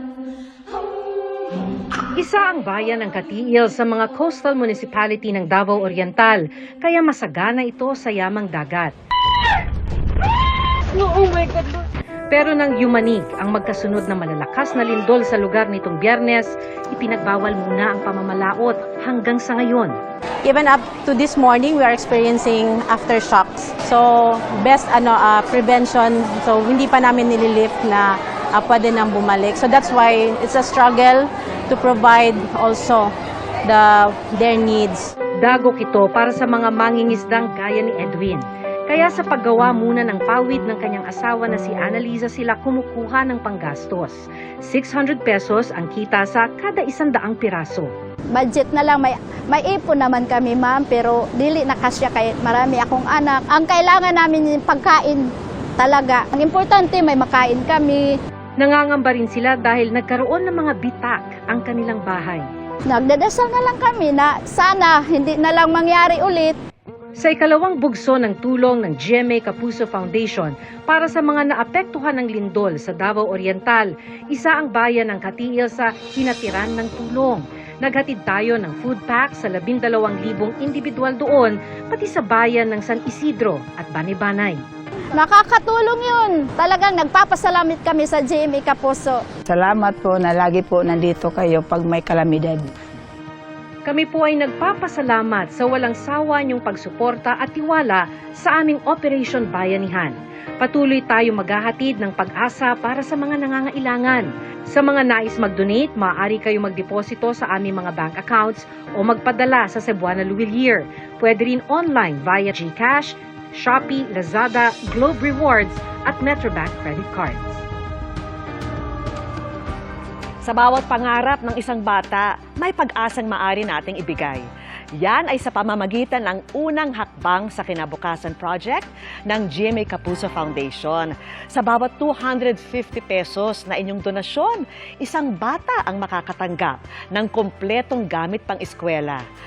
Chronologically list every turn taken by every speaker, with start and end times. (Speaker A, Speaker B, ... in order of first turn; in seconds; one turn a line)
Speaker A: 2.1-8.9
Speaker A: 11.0-11.8
Speaker A: 12.3-20.0
Speaker B: 20.4-33.1
Speaker B: 33.6-35.1
Speaker A: 35.4-47.9
Speaker C: 48.3-58.2
Speaker A: 58.6-62.5
Speaker C: 62.9-66.6
Speaker A: 67.2-84.6
Speaker C: 85.2-89.2
Speaker D: 89.5-92.8
Speaker A: 93.9-117.6
Speaker E: 120.4-124.4
Speaker E: 125.0-139.2